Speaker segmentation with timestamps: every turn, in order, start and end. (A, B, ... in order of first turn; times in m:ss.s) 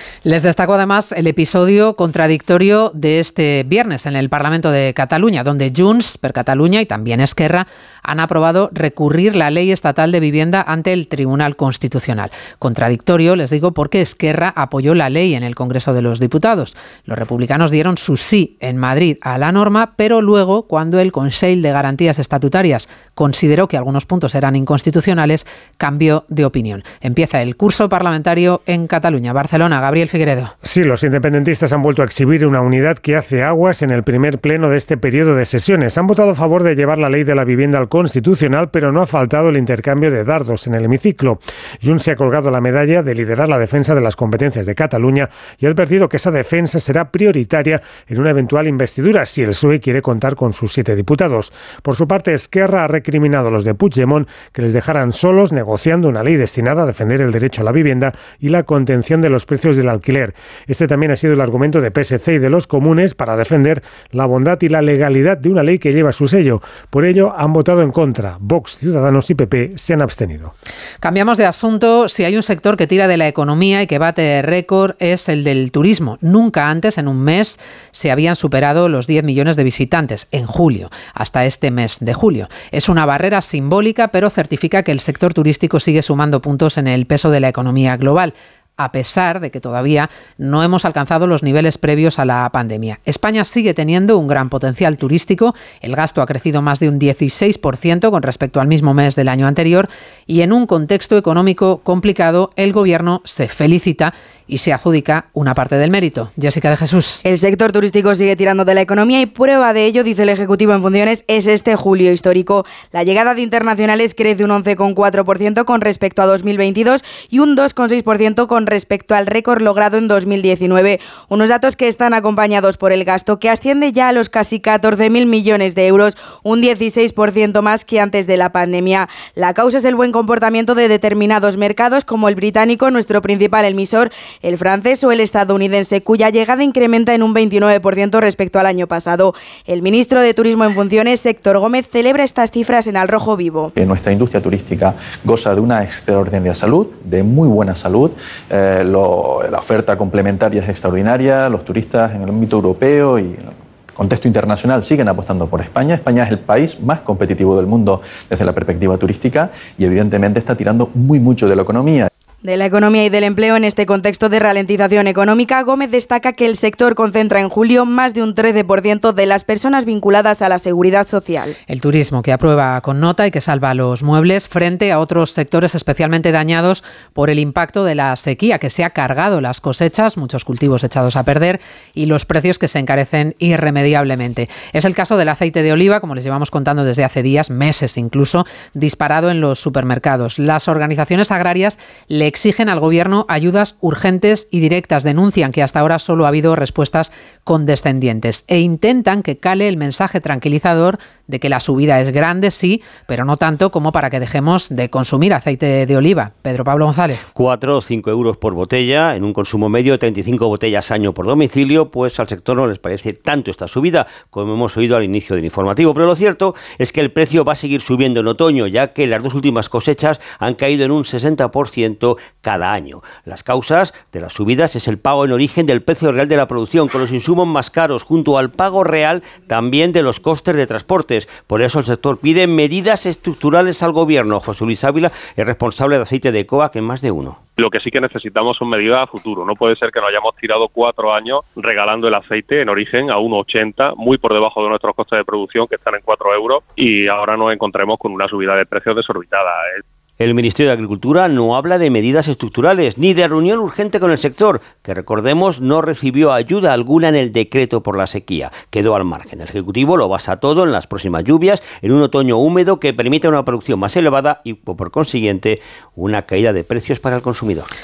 0:00.2-0:30.5 A
0:30.6-1:10.5 B
1:11.0-1:47.2 A
1:47.2-2:23.7 C
2:23.8-2:42.1 D
2:42.4-2:51.5 C
2:51.7-3:27.3 A
3:27.4-3:57.4 E
3:57.6-4:09.8 F
4:10.2-4:27.7 E